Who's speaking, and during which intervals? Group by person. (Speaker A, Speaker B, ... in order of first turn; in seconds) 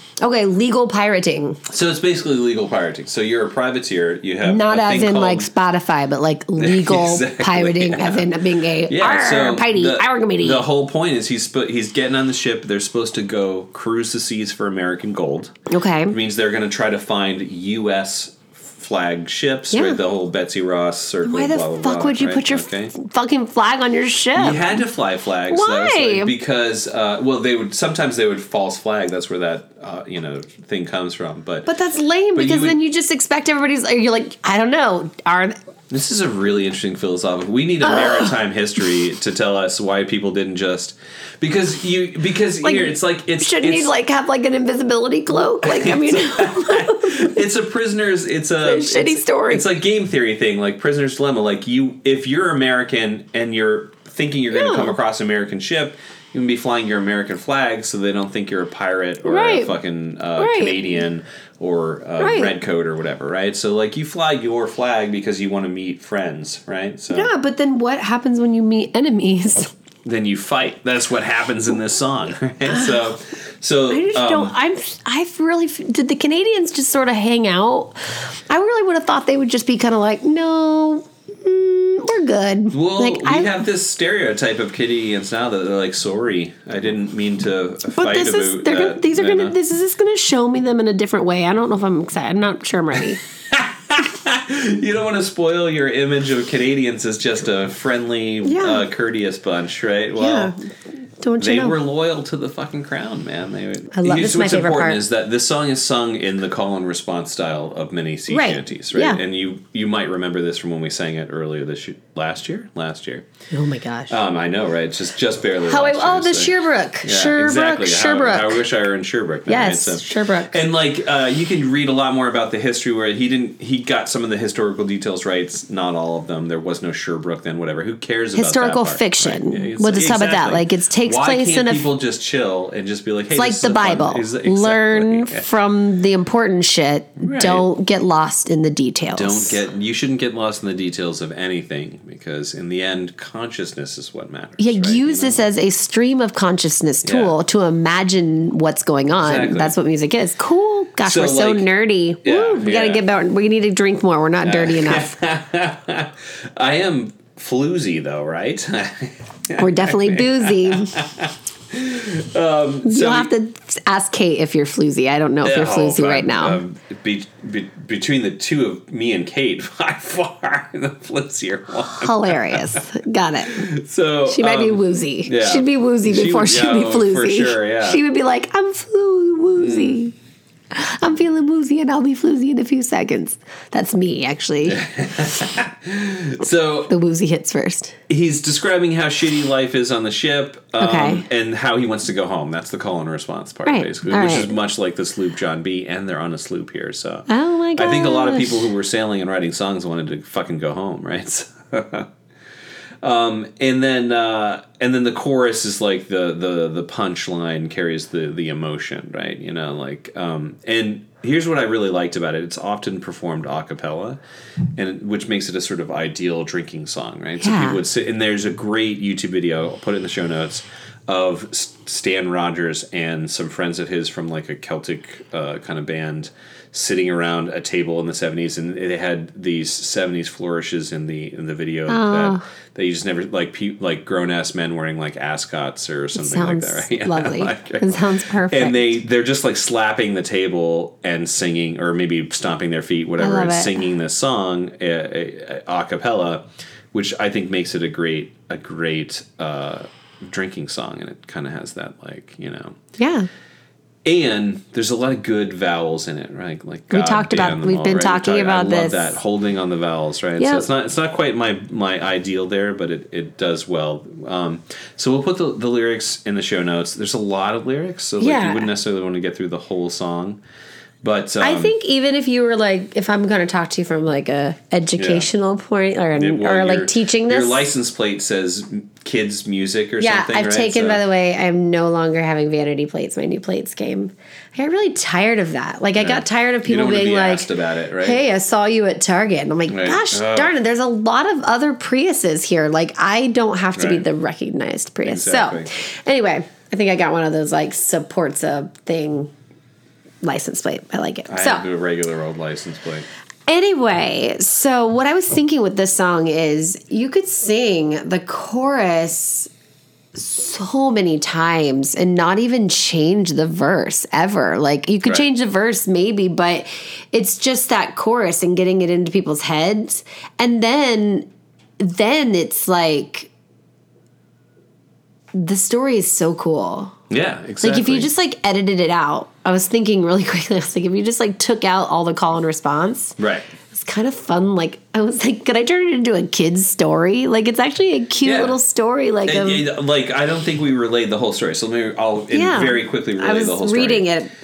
Speaker A: 0.2-1.6, 4.4-10.6, 15.7-16.1, 19.7-20.0, 21.2-24.8, 25.5-26.3, 31.6-35.5, 37.8-38.3, 42.6-47.4, 48.6-49.6, 54.5-55.0, 59.2-59.7, 60.4-60.8, 62.2-62.5, 67.1-69.7, 73.9-78.0, 78.5-83.5, 87.9-93.2, 98.4-98.8, 100.2-100.6, 101.2-101.8, 103.9-105.0, 108.3-109.2, 113.5-114.2, 115.6-118.6, 119.5-120.6, 128.3-131.8, 133.3-139.6, 144.6-155.1, 159.6-160.9, 162.8-166.6, 171.9-173.7, 174.3-180.1, 180.7-184.8, 186.9-187.9, 190.8-191.2, 193.7-194.5, 197.3-198.7, 217.4-217.8, 231.9-232.4, 236.1-238.9, 243.2-243.8, 253.0-253.3, 256.9-259.1, 260.4-260.6, 268.2-268.7, 271.4-277.6, 280.0-287.5, 288.0-299.3, 300.2-301.6, 303.5-309.5, 310.1-321.3, 321.8-323.3, 325.3-326.9, 327.6-333.1, 333.7-339.7, 342.3-344.3
Speaker B: 1.7-5.5, 6.6-8.3, 8.9-15.5, 16.1-22.9, 24.3-31.7, 32.3-32.8, 35.9-43.9, 45.6-67.3, 70.0-74.5, 82.7-89.5, 93.5-100.5, 101.4-113.2, 114.1-135.4, 137.2-137.7, 139.1-145.4, 147.0-147.3, 149.2-149.7, 151.0-151.7, 152.2-153.0, 154.4-163.3, 165.4-172.8, 173.5-178.0, 179.6-180.0, 184.6-186.9, 188.1-202.1, 203.0-214.2, 214.7-252.8, 254.0-270.4, 271.0-271.7, 274.9-275.3, 276.1-281.0, 285.9-288.2, 289.7-290.5, 293.8-294.0, 295.0-295.7, 301.3-303.1, 327.1-328.1, 333.2-333.5, 338.2-338.6, 339.2-344.1